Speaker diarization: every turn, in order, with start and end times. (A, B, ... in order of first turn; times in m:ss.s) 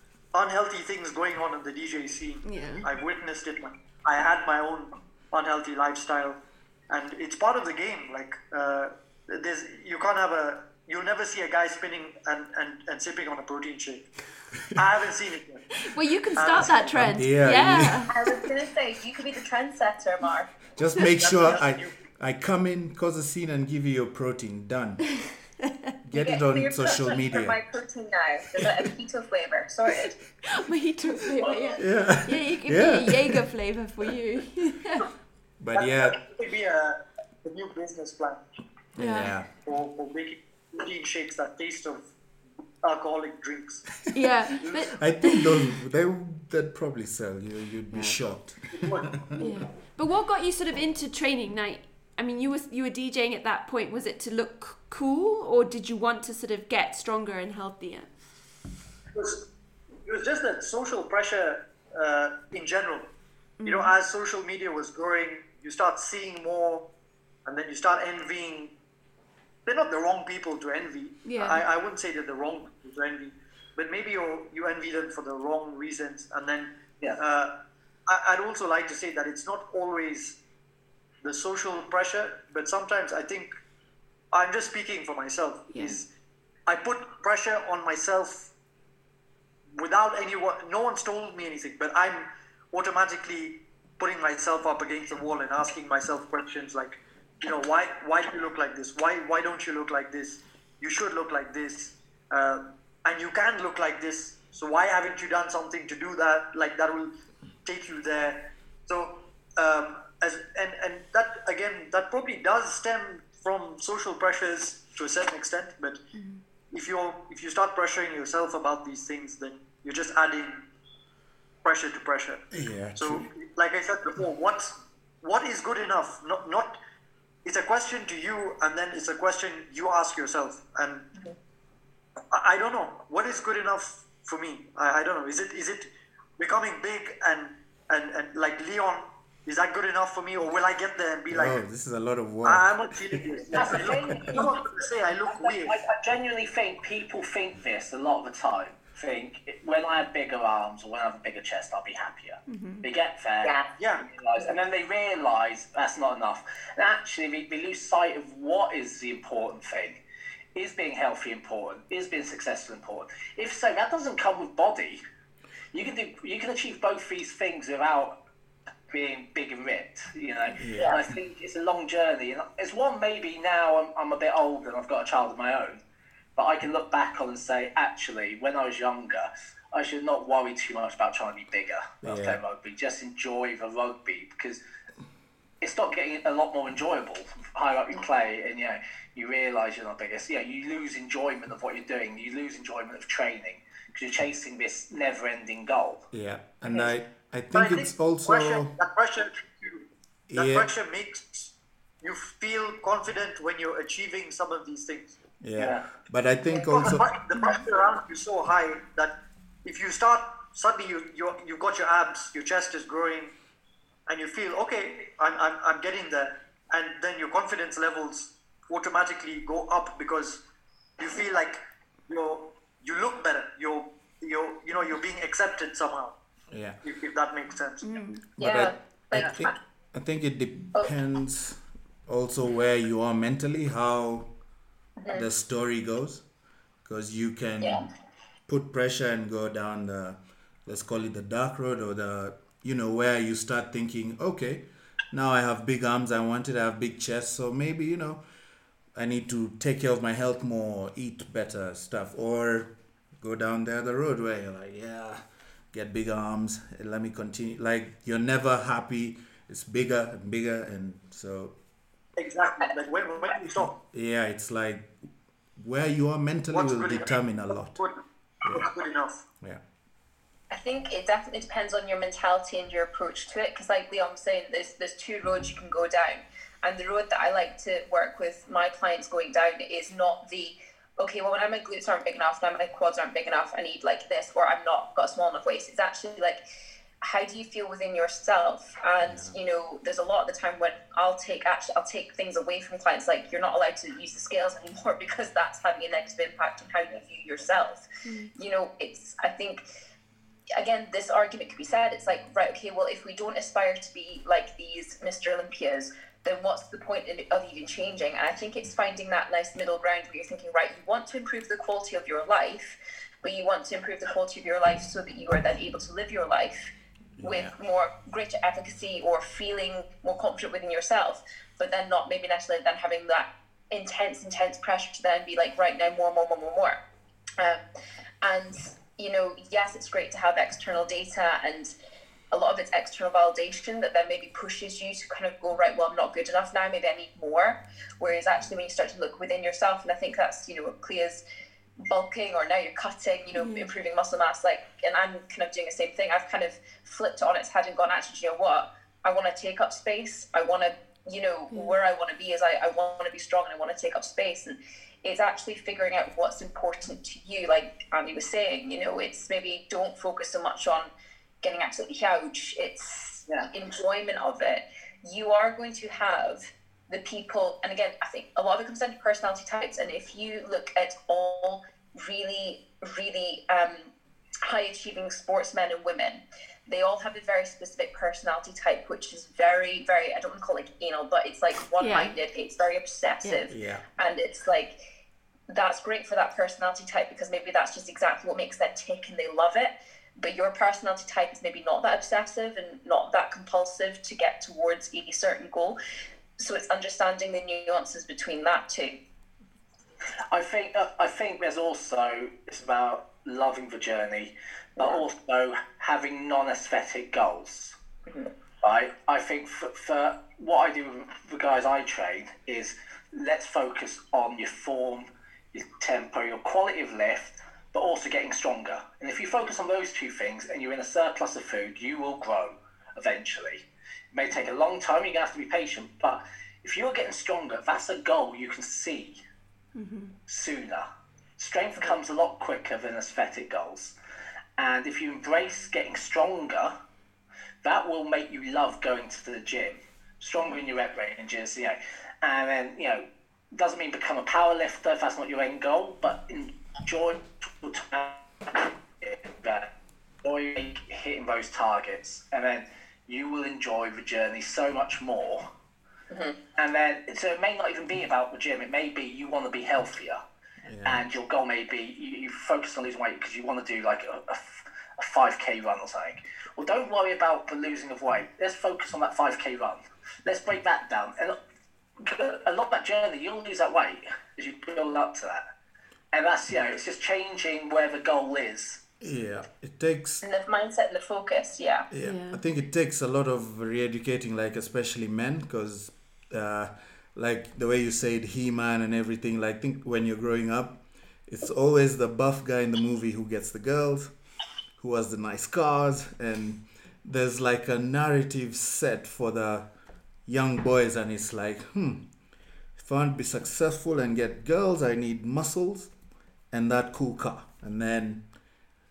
0:00.3-0:14.1 A
0:02.4-0:02.9 B
0:14.8-0:15.8 A
0:15.8-0:18.1 B
0:16.4-0:17.2 A
0:16.9-0:18.1 C
0:18.1-0:20.6 D
0:20.8-0:25.2 C
0:21.2-0:22.0 A
0:26.0-0:27.6 C
0:26.2-0:30.2 D
0:28.6-0:28.8 C
0:30.4-0:35.1 B
0:31.8-0:33.4 C
0:35.6-0:36.2 C
0:35.7-0:38.4 A
0:39.0-0:39.5 C
0:39.0-0:39.4 B
0:39.5-0:42.1 A
0:42.8-0:44.0 A
0:44.1-0:45.7 B
0:44.6-0:44.9 A
0:44.9-0:49.4 C
0:47.9-0:48.2 B
0:48.7-0:49.6 A
0:49.4-0:58.1 B
0:59.1-0:59.5 A
1:00.0-1:03.1 A
1:03.6-1:03.9 B
1:03.6-1:06.9 A
1:07.5-1:08.7 A
1:09.7-1:20.4 A
1:11.2-1:11.6 B
1:21.2-1:23.5 A
1:24.3-1:26.1 A
1:25.7-1:26.0 B
1:26.7-1:28.5 A
1:29.8-1:47.1 A
1:47.6-1:56.0 A
1:56.2-1:56.4 B
1:56.7-2:00.7 A
2:01.6-2:06.8 A
2:02.5-2:03.3 C
2:07.4-2:11.1 A
2:12.3-2:21.6 A
2:21.3-2:23.2 C
2:22.4-2:25.8 A
2:23.5-2:24.6 E
2:23.8-2:24.2 C
2:25.3-2:40.0 E
2:32.5-2:32.9 B
2:33.4-2:33.7 D
2:33.8-2:34.0 A
2:40.6-2:45.0 E
2:45.7-2:48.2 E
2:48.9-2:55.8 E
2:50.6-2:51.0 C
2:56.4-3:04.6 E
3:02.0-3:02.4 C
3:05.6-3:16.0 E
3:16.1-3:18.7 C
3:17.5-3:25.2 A
3:20.3-3:20.7 C
3:25.4-3:27.1 C
3:25.6-3:25.9 E
3:26.5-3:33.3 A
3:34.1-3:40.4 A
3:41.0-3:46.2 A
3:46.5-3:46.8 C
3:46.8-3:48.0 A
3:47.8-3:48.3 B
3:48.4-3:49.6 D
3:48.4-3:54.3 C
3:55.0-3:55.3 D
3:55.1-3:56.2 C
3:56.8-3:57.9 C
3:57.6-3:57.9 D
3:58.5-4:08.2 C
4:08.9-4:21.6 C
4:22.2-4:23.8 A
4:23.8-4:24.9 C
4:25.6-4:27.8 C
4:26.5-4:29.2 A
4:30.5-4:46.4 D
4:47.0-4:59.6 D
4:49.1-4:49.3 C
4:58.0-4:58.3 B
5:00.6-5:16.7 D
5:17.2-5:17.5 C
5:17.2-5:26.8 D
5:27.4-5:27.7 D
5:28.2-5:31.7 D
5:32.3-5:41.2 D
5:41.8-6:00.9 D
5:43.4-5:43.7 B
5:51.5-5:51.8 B
6:01.4-6:13.9 D
6:14.4-6:24.8 D
6:21.8-6:22.1 B
6:23.5-6:23.8 C
6:25.5-6:35.8 D
6:36.4-6:39.0 D
6:40.3-6:47.8 E
6:48.6-7:09.2 E
7:09.8-7:10.2 B
7:10.3-7:10.9 E
7:11.4-7:14.0 E
7:14.6-7:16.7 E
7:17.6-7:29.7 E
7:30.2-7:35.5 E
7:36.1-7:36.4 D
7:36.6-7:40.2 E
7:40.7-7:41.0 C
7:40.8-7:51.4 E
7:52.0-7:55.4 E
7:56.1-7:58.8 E
7:59.0-8:00.2 C
8:00.2-8:01.9 D
8:01.9-8:14.1 C
8:02.0-8:02.4 B
8:14.8-8:19.7 C
8:20.3-8:22.1 C
8:22.8-8:25.9 C
8:26.5-8:28.3 C